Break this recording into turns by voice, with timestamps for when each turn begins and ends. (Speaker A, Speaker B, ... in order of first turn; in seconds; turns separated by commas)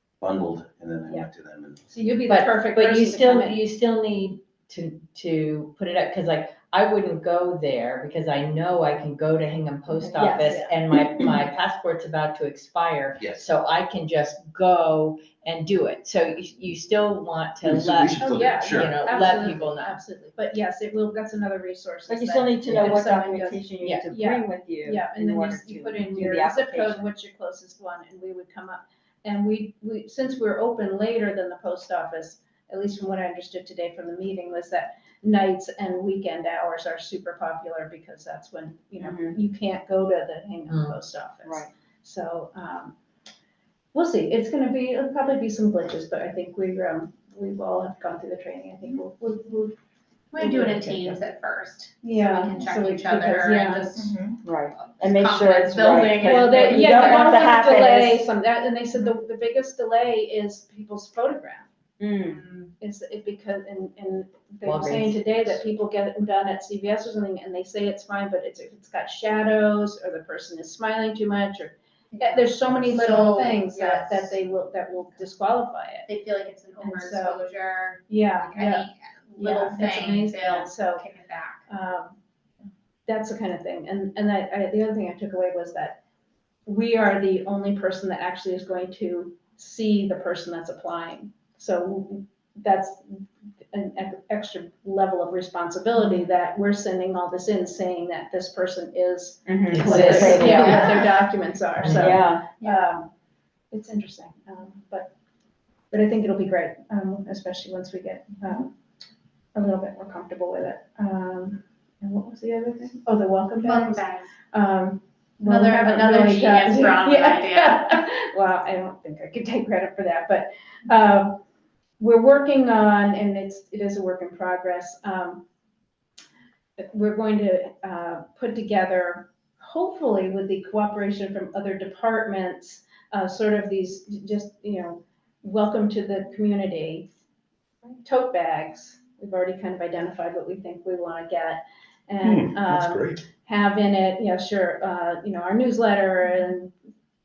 Speaker A: 0.2-1.9, Speaker B: 1.9-3.6, Speaker C: 2.3-20.0, Speaker B: 9.9-10.8, Speaker D: 10.2-10.5, Speaker A: 13.2-13.5, Speaker A: 17.6-19.0, Speaker B: 18.2-43.0, Speaker D: 22.1-27.0, Speaker D: 39.0-39.4, Speaker C: 40.7-41.0, Speaker D: 41.4-41.7, Speaker B: 43.9-49.8, Speaker E: 50.3-57.3, Speaker B: 50.4-51.2, Speaker B: 52.0-53.9, Speaker D: 54.4-58.2, Speaker B: 56.2-61.7, Speaker D: 62.0-62.5, Speaker B: 62.8-76.1, Speaker C: 64.6-65.2, Speaker E: 72.2-74.4, Speaker E: 76.1-81.7, Speaker B: 76.8-77.4, Speaker B: 78.1-81.0, Speaker B: 81.7-82.2, Speaker B: 83.1-86.0, Speaker B: 86.7-103.1, Speaker D: 99.5-101.2, Speaker C: 99.7-101.0, Speaker C: 101.8-102.2, Speaker D: 101.9-102.5, Speaker B: 103.7-105.1, Speaker B: 105.9-108.8, Speaker B: 109.5-121.4, Speaker E: 113.6-114.3, Speaker E: 115.5-117.9, Speaker B: 122.0-125.4, Speaker B: 126.8-137.1, Speaker B: 138.0-146.7, Speaker A: 142.2-143.2